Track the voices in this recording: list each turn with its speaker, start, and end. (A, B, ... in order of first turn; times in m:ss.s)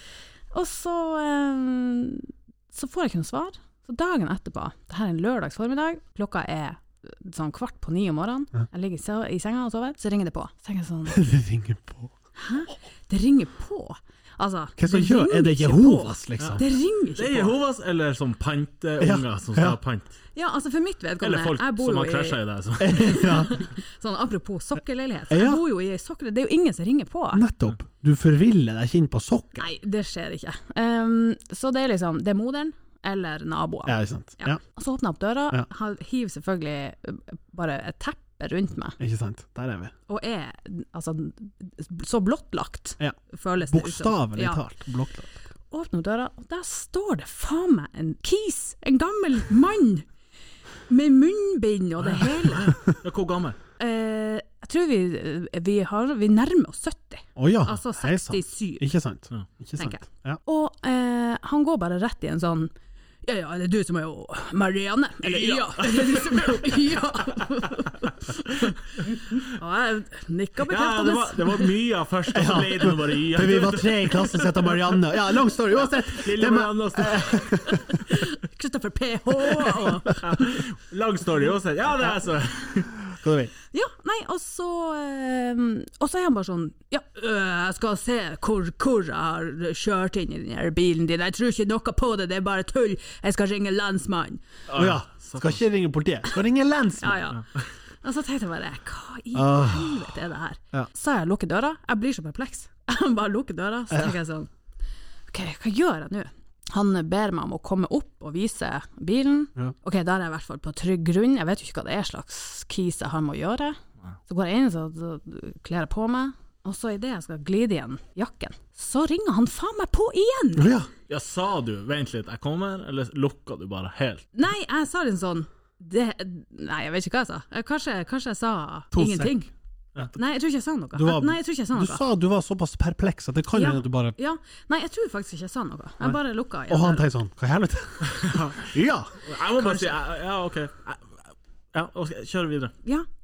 0:00.5-0:11.2 A
0:11.1-0:12.1 B
0:12.4-0:17.6 A
0:14.8-0:16.6 B
0:17.1-0:20.1 C
0:19.0-0:19.8 B
0:20.3-0:27.4 A
0:21.2-0:23.5 C
0:22.8-0:23.5 B
0:25.3-0:25.6 B
0:27.3-0:29.7 B
0:29.6-0:39.0 A
0:33.8-0:34.6 B
0:39.0-0:39.9 B
0:40.1-0:44.6 A
0:43.0-0:45.3 B
0:45.7-0:50.1 A
0:50.9-0:52.8 A
0:52.3-0:53.6 C
0:53.8-0:58.9 A
0:57.4-1:00.4 B
0:59.8-1:02.7 A
1:03.2-1:11.7 A
1:05.2-1:06.8 C
1:10.7-1:14.8 C
1:12.3-1:18.0 B
1:16.0-1:17.6 C
1:17.6-1:20.2 A
1:19.6-1:23.0 C
1:23.2-1:23.5 B
1:23.7-1:34.4 A
1:34.7-1:35.6 C
1:34.7-1:37.3 B
1:37.0-1:37.4 A
1:38.0-1:44.5 A
1:39.3-1:40.1 B
1:45.3-2:00.7 A
2:00.6-2:00.9 B
2:01.1-2:04.3 C
2:04.3-2:09.5 A
2:08.9-2:09.4 B
2:10.1-2:12.0 A
2:11.0-2:14.1 B
2:13.5-2:17.0 A
2:16.7-2:19.1 B
2:18.0-2:18.7 C
2:19.2-2:21.1 C
2:19.5-2:20.0 A
2:21.7-2:22.7 C